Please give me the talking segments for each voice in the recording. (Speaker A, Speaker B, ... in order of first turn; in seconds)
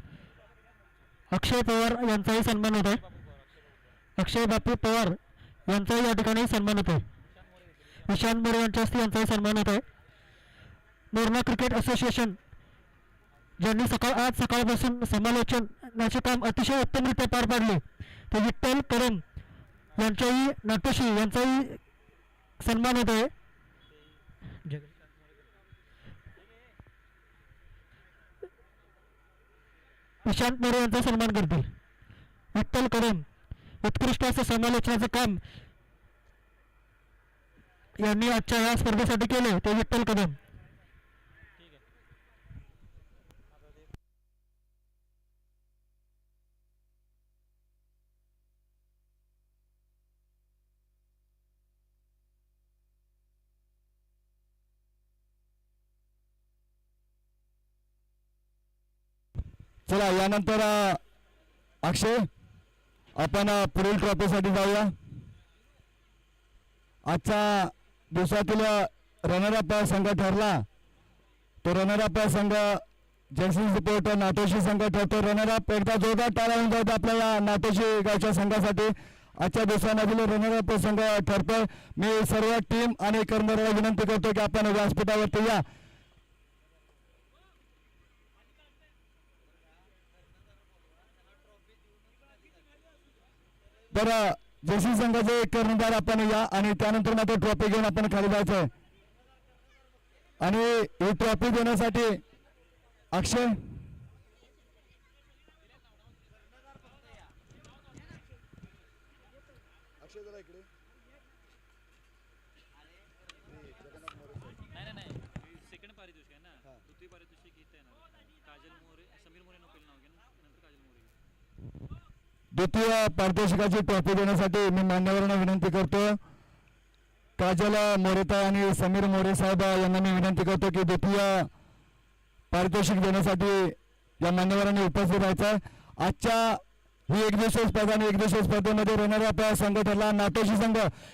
Speaker A: 1.3-3.0, 4.2-5.2, 5.7-7.0, 8.1-9.8, 11.1-12.3, 13.6-19.2, 20.0-21.8, 22.6-23.3, 30.2-31.7, 32.5-33.2, 33.8-35.4, 38.0-40.4
Speaker B: 3.0-3.9, 7.3-8.1, 23.9-24.2, 24.8-25.5, 41.6-41.8, 43.5-43.9, 114.7-121.1
Speaker C: 59.9-61.0, 61.8-62.3, 63.2-64.9, 67.1-70.7, 71.6-85.6, 93.9-98.7, 100.4-102.2, 103.1-103.6, 122.5-126.2, 127.4-131.5, 132.5-140.9
Speaker D: 110.0-110.7, 113.4-114.7